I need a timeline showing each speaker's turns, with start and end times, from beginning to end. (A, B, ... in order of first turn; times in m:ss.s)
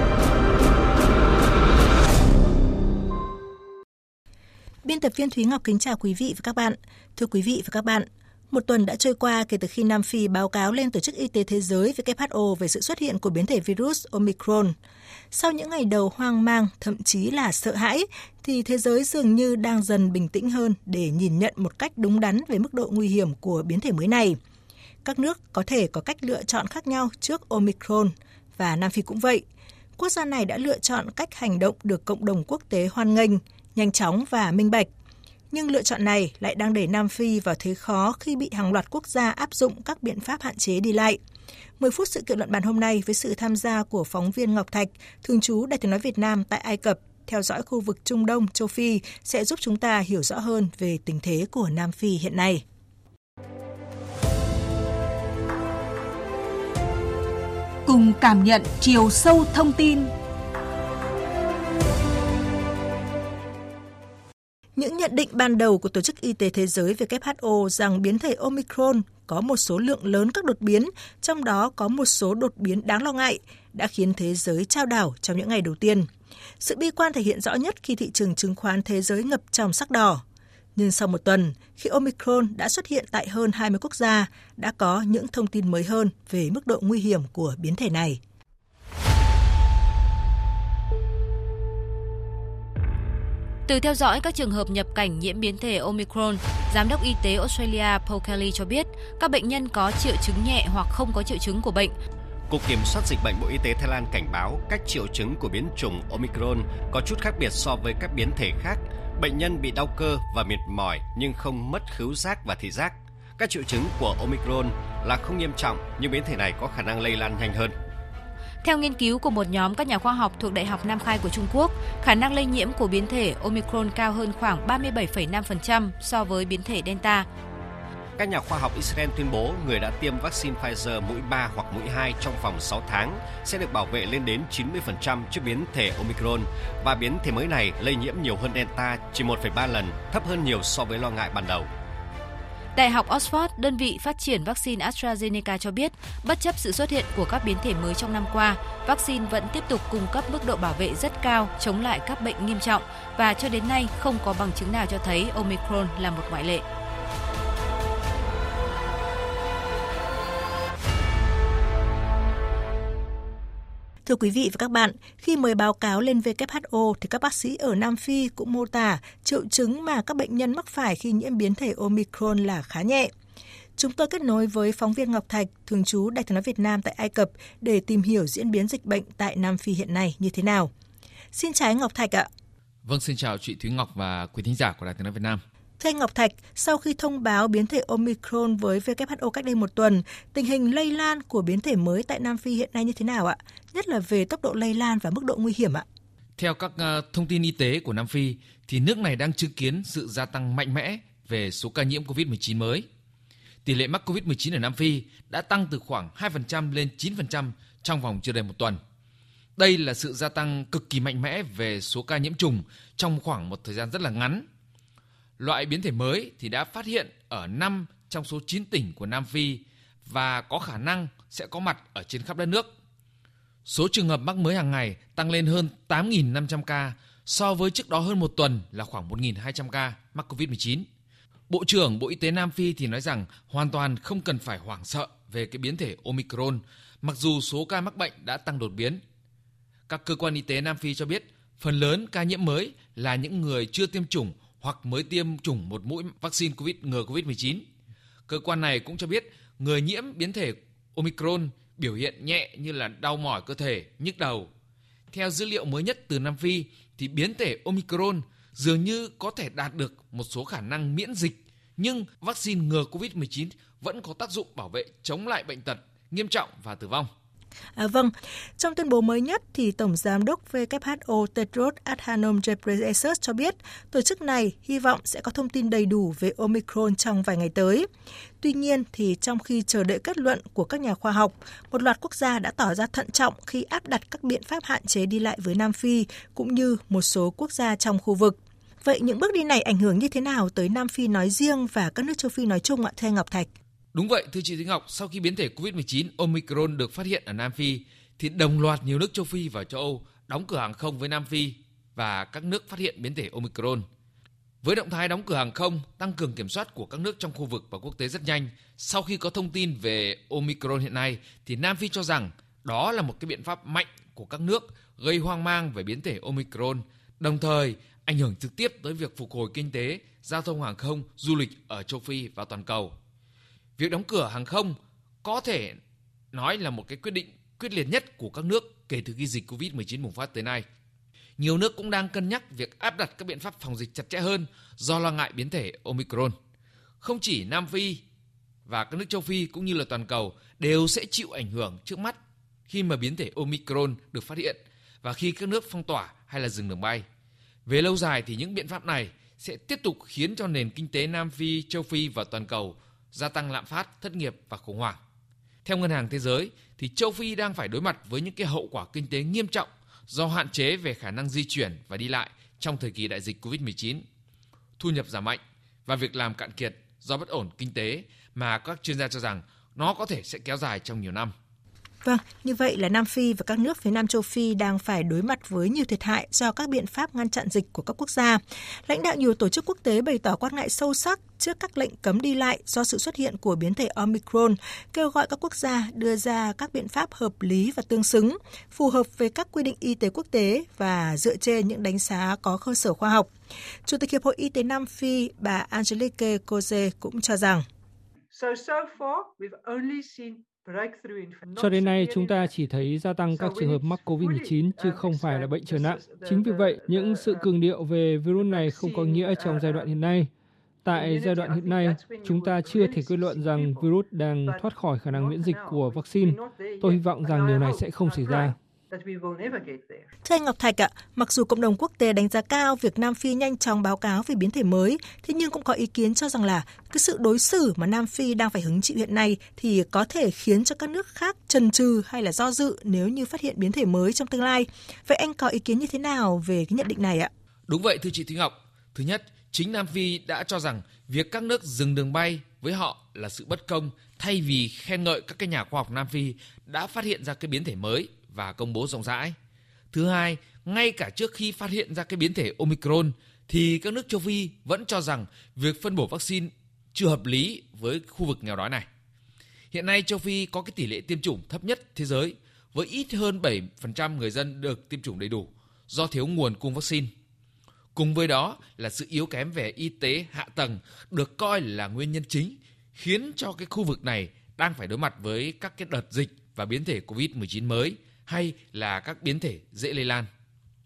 0:04.8-0:14.7 A
0:15.3-0:24.4 A
0:25.0-0:29.4 A
0:30.0-0:34.9 A
0:35.5-0:41.2 A
0:41.8-0:52.6 A
0:57.9-1:00.0 B
1:04.8-1:16.1 A
1:16.6-1:20.2 A
1:20.7-1:28.2 A
1:33.7-1:41.9 C
1:42.5-1:57.7 D
1:58.6-2:07.3 C
2:08.2-2:21.7 D
2:22.7-2:36.6 C
2:44.0-2:53.1 A
2:53.8-3:00.7 A
3:01.3-3:02.3 A
3:02.8-3:05.4 E
3:05.8-3:15.8 A
3:16.4-3:22.8 E
3:23.6-3:28.8 E
3:29.6-3:34.4 E
3:35.4-3:42.7 E
3:43.6-3:50.8 E
3:51.5-3:59.0 E
3:59.9-4:07.6 E
4:08.3-4:14.5 E
4:15.1-4:27.1 E
4:27.8-4:37.8 A
4:38.4-4:53.5 A
4:53.9-5:03.8 E
5:04.6-5:22.9 E
5:23.8-5:25.8 E
5:26.3-5:30.6 E
5:31.4-5:36.3 E
5:37.0-5:38.0 E
5:38.6-5:47.0 E
5:47.6-5:55.0 E
5:55.6-6:04.0 E
6:04.8-6:11.3 E
6:12.0-6:33.3 A
6:33.8-6:37.6 A
6:38.3-6:42.5 F
6:41.5-6:50.3 G
6:43.3-6:47.5 F
6:48.4-6:50.0 F
6:50.8-6:58.6 G
6:50.9-6:53.9 F
6:54.4-7:00.1 F
7:00.2-7:17.3 A
7:17.7-7:29.4 E
7:29.9-7:38.8 E
7:39.7-7:47.1 E
7:47.9-8:00.3 E